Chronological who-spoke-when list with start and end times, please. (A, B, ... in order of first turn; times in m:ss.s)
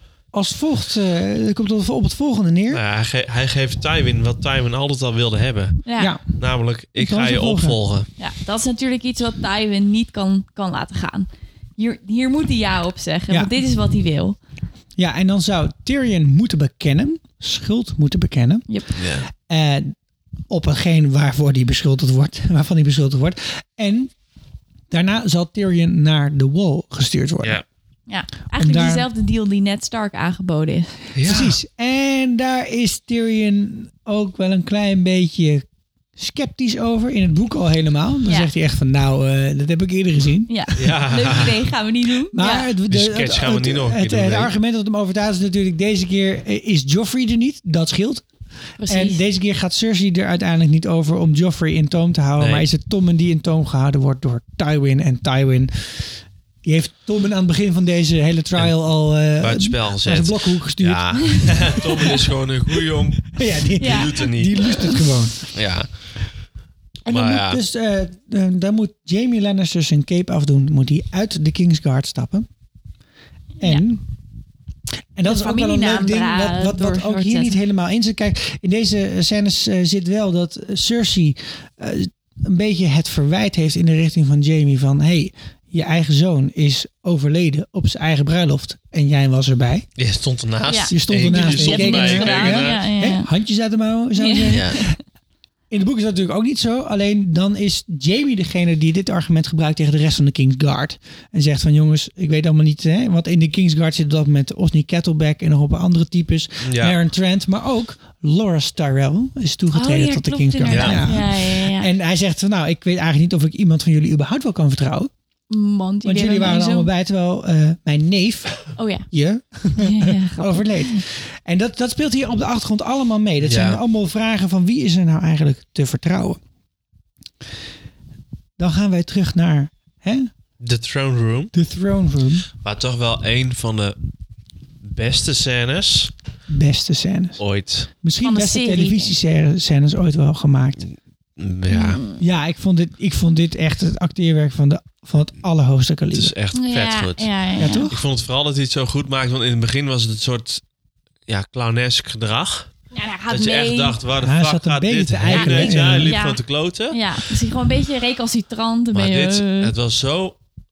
0:00.3-0:02.8 A
0:02.7-0:05.8 B
0:05.8-0:06.1 C
0:06.0-0:06.2 A
0:06.4-0:08.1 B
0:07.0-0:07.8 A
0:08.2-0:14.4 C
0:15.0-0:18.6 A
0:19.0-0:19.3 B
0:19.3-0:20.0 A
0:20.5-0:24.1 A
0:24.9-0:27.6 A
0:28.1-0:30.9 C
0:28.6-0:29.0 A
0:31.2-0:31.6 B
0:31.2-0:35.6 A
0:36.2-0:40.6 A
0:40.5-0:42.7 C
0:40.8-0:41.5 B
0:42.3-0:48.2 A
0:42.9-0:44.5 B
0:48.8-0:49.2 C
0:48.9-1:02.0 A
0:52.4-0:52.7 B
0:58.6-1:04.8 B
1:03.3-1:05.4 A
1:03.8-1:04.9 C
1:05.5-1:06.1 B
1:07.1-1:12.5 A
1:07.1-1:07.6 B
1:13.6-1:14.0 A
1:15.2-1:29.9 A
1:15.2-1:17.6 C
1:30.0-1:32.9 B
1:30.7-1:33.3 C
1:30.9-1:34.9 A
1:34.2-1:35.0 C
1:34.5-1:34.8 B
1:35.7-1:55.1 A
1:46.6-1:47.0 B
1:49.7-1:51.9 C
1:50.7-1:51.0 B
1:55.5-1:56.9 C
1:56.0-2:06.4 A
1:58.8-1:59.1 C
1:59.8-2:01.0 C
2:03.4-2:03.8 B
2:08.6-2:10.3 A
2:10.6-2:11.5 B
2:11.5-2:12.4 A
2:12.6-2:14.0 B
2:14.8-2:16.1 B
2:16.5-2:17.4 A
2:17.4-2:17.9 B
2:18.0-2:20.8 A
2:18.2-2:19.1 C
2:20.8-2:22.0 B
2:21.7-2:22.2 C
2:22.2-2:26.3 A
2:26.1-2:30.6 B
2:26.5-2:27.9 C
2:27.6-2:28.0 A
2:31.3-2:32.7 B
2:32.9-2:34.0 C
2:33.3-2:37.0 B
2:34.2-2:36.1 A
2:35.3-2:39.7 C
2:38.9-2:40.4 B